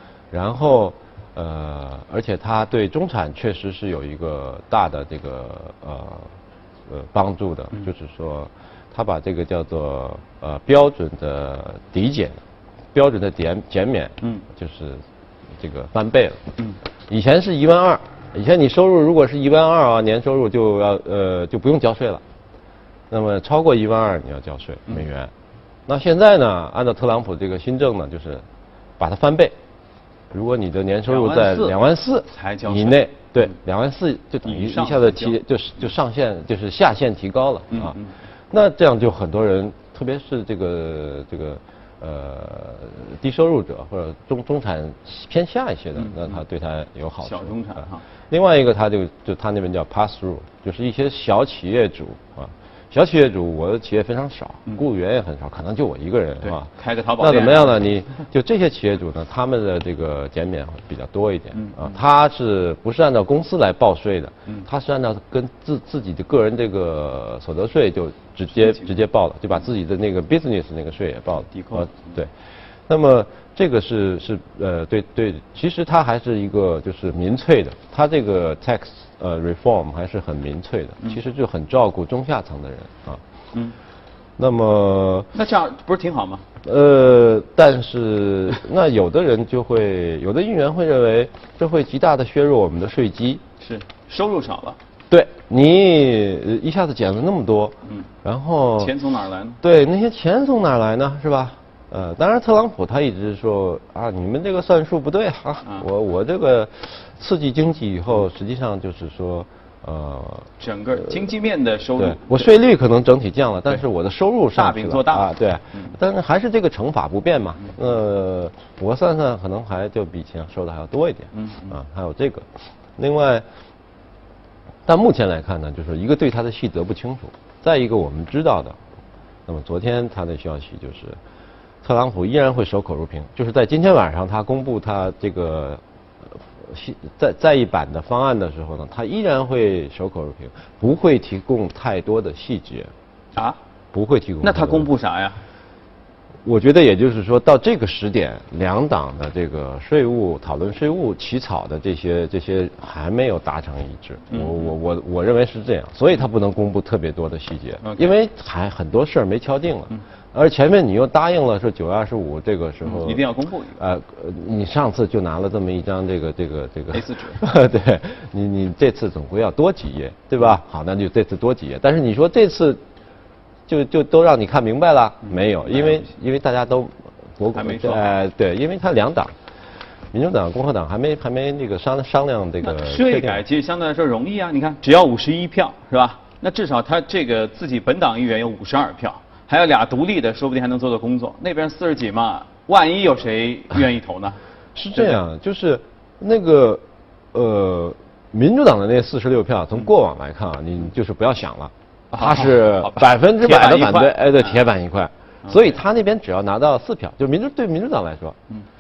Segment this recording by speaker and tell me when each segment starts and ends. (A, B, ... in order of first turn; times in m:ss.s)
0:00.3-0:06.3 A
0:06.9-0:12.4 A
0:12.9-0:15.0 A
0:15.6-0:16.4 A
0:17.1-0:22.2 A
0:23.1-0:25.3 A
0:25.9-0:28.4 A
0:29.0-0:29.6 A
0:30.3-0:38.0 A
0:31.1-0:33.5 B
0:34.4-0:35.4 B
0:37.7-0:38.1 B
0:38.5-1:12.3 A
0:46.0-0:46.4 B
0:47.2-0:48.0 B
0:56.4-0:57.8 B
1:01.5-1:02.0 B
1:08.6-1:09.0 B
1:11.5-1:12.1 B
1:12.9-1:23.2 A
1:24.4-1:25.3 A
1:25.3-1:26.4 B
1:26.6-1:33.4 A
1:33.6-1:34.8 B
1:35.1-1:38.9 A
1:38.8-1:39.6 B
1:39.6-1:50.5 A
1:50.6-1:52.5 B
1:52.0-2:03.4 A
1:54.5-1:56.0 B
2:01.3-2:01.8 B
2:04.8-2:08.8 A
2:09.4-2:11.2 A
2:11.8-2:22.9 A
2:23.9-2:24.9 A
2:24.4-2:25.4 B
2:26.4-2:43.2 A
2:34.3-2:34.7 B
2:37.8-2:38.1 B
2:42.8-2:43.8 B
2:43.8-2:52.8 A
2:46.9-2:47.4 B
2:53.7-2:59.3 A
2:55.2-2:56.0 B
2:57.5-2:58.1 B
3:00.1-3:03.4 A
3:02.6-3:14.4 B
3:14.7-3:28.4 A
3:22.1-3:24.6 B
3:25.4-3:25.7 B